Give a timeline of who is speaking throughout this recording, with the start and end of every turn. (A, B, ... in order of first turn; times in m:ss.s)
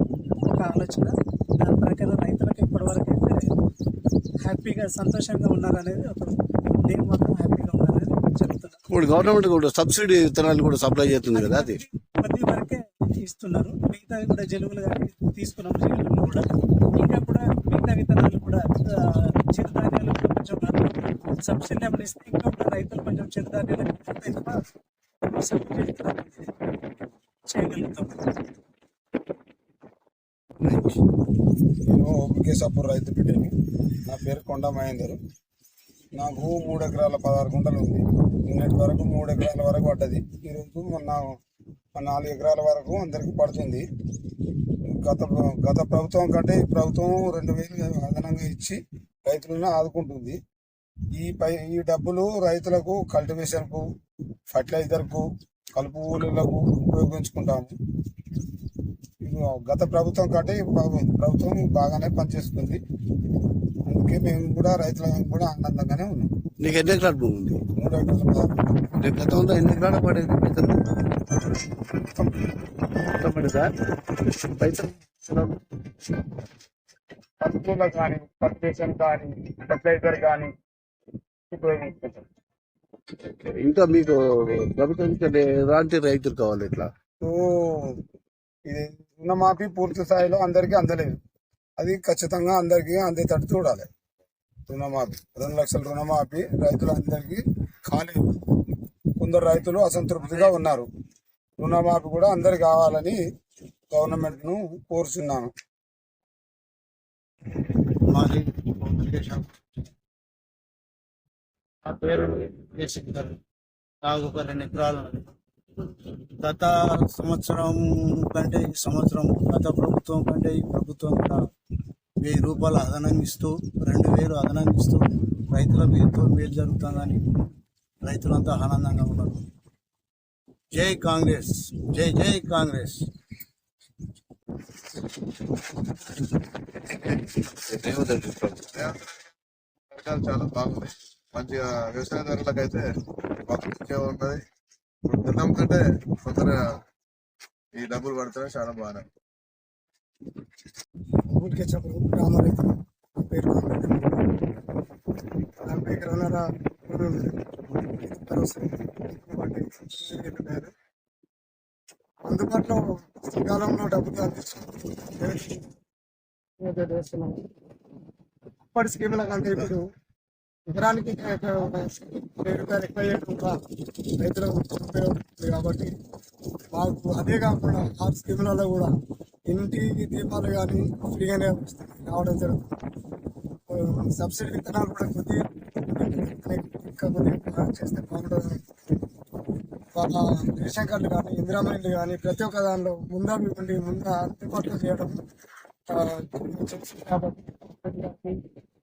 0:00.4-0:03.5 A
0:04.4-0:08.8 A
0:08.9-0:11.8 B
0:11.3-0:24.6 A
0:25.2-0:26.5 A
0:27.5-0:28.3 A
0:31.8-0:33.5 C
0:34.0-0:35.2 C
0:36.1-0:41.4 C
0:41.9-0:43.8 C
0:44.9-0:50.4 C
0:51.2-0:53.8 C
0:54.5-0:57.7 C
0:59.2-1:02.8 C
1:03.8-1:06.3 C
1:06.6-1:07.6 B
1:07.8-1:08.7 C
1:09.0-1:10.8 B
1:12.0-1:12.3 C
1:13.0-1:15.6 B
1:17.4-1:20.5 C
1:21.5-1:22.2 C
1:23.3-1:26.9 B
1:27.2-1:28.0 C
1:28.7-1:31.1 C
1:31.8-1:33.8 C
1:34.7-1:38.5 C
1:39.2-1:40.9 C
1:41.6-1:43.2 C
1:43.9-1:45.5 C
1:48.1-1:49.5 D
1:51.9-1:53.4 D
1:54.0-1:55.3 D
1:56.0-2:01.4 D
2:02.2-2:07.2 D
2:08.0-2:09.4 D
2:10.7-2:13.1 D
2:16.9-2:18.7 B
2:18.7-2:19.2 E
2:19.9-2:22.9 E
2:23.4-2:24.4 E
2:25.0-2:26.7 E
2:27.7-2:29.0 E
2:31.3-2:34.4 F
2:35.6-2:40.7 F
2:42.2-2:45.7 F
2:46.6-2:47.4 F
2:48.7-2:49.8 F
2:50.7-2:53.6 F
2:54.2-2:55.9 F
2:56.7-2:58.9 F
2:59.5-3:02.7 F
3:03.7-3:08.6 F
3:09.9-3:15.2 F
3:15.9-3:18.4 F